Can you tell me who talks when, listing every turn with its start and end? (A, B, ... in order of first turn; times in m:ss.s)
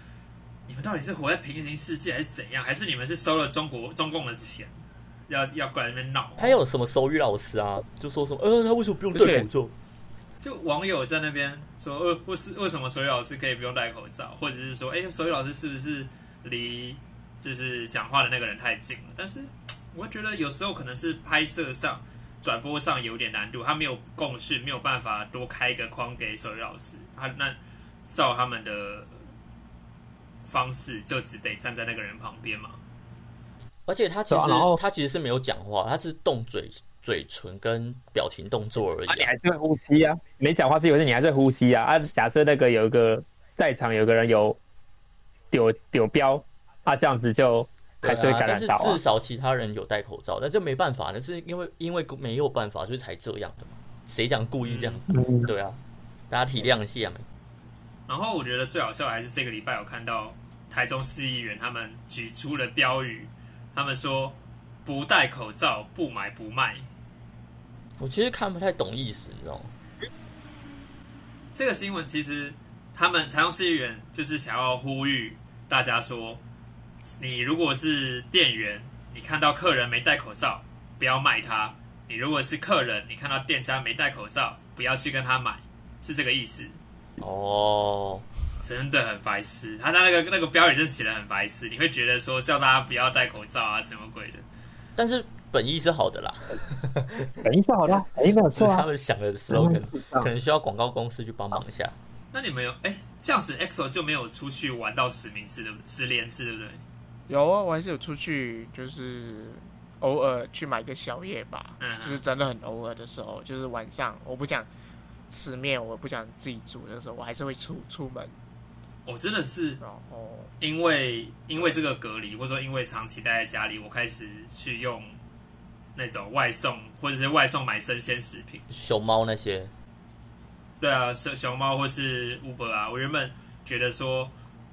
0:00.7-0:04.7 A
0:05.3-0:06.5 A
0:06.4-0:09.7 B
0:09.1-0:09.5 C
0:10.4-0:27.6 A
0:28.1-0:29.1 A
0:30.4-0:32.8 A
0:33.8-0:39.3 B
0:34.3-0:34.8 D
0:39.1-0:44.6 D
0:45.5-0:49.0 D
0:48.0-0:57.2 B
0:54.6-0:55.0 A
0:55.1-0:55.5 D
0:58.1-1:06.9 A
1:08.0-1:09.7 B
1:11.5-1:16.4 A
1:17.0-1:26.8 A
1:27.2-1:28.2 B
1:28.6-1:34.4 A
1:35.0-1:37.4 B
1:37.4-1:38.8 D
1:38.5-1:42.0 B
1:39.5-1:40.3 D
1:42.3-1:46.8 A
1:47.3-1:54.7 C
1:51.8-1:52.2 A
1:55.3-1:58.3 C
1:59.0-1:59.8 A
1:59.8-2:00.5 C
2:00.6-2:05.2 A
2:05.9-2:08.6 A
2:08.7-2:09.7 B
2:10.8-2:14.3 A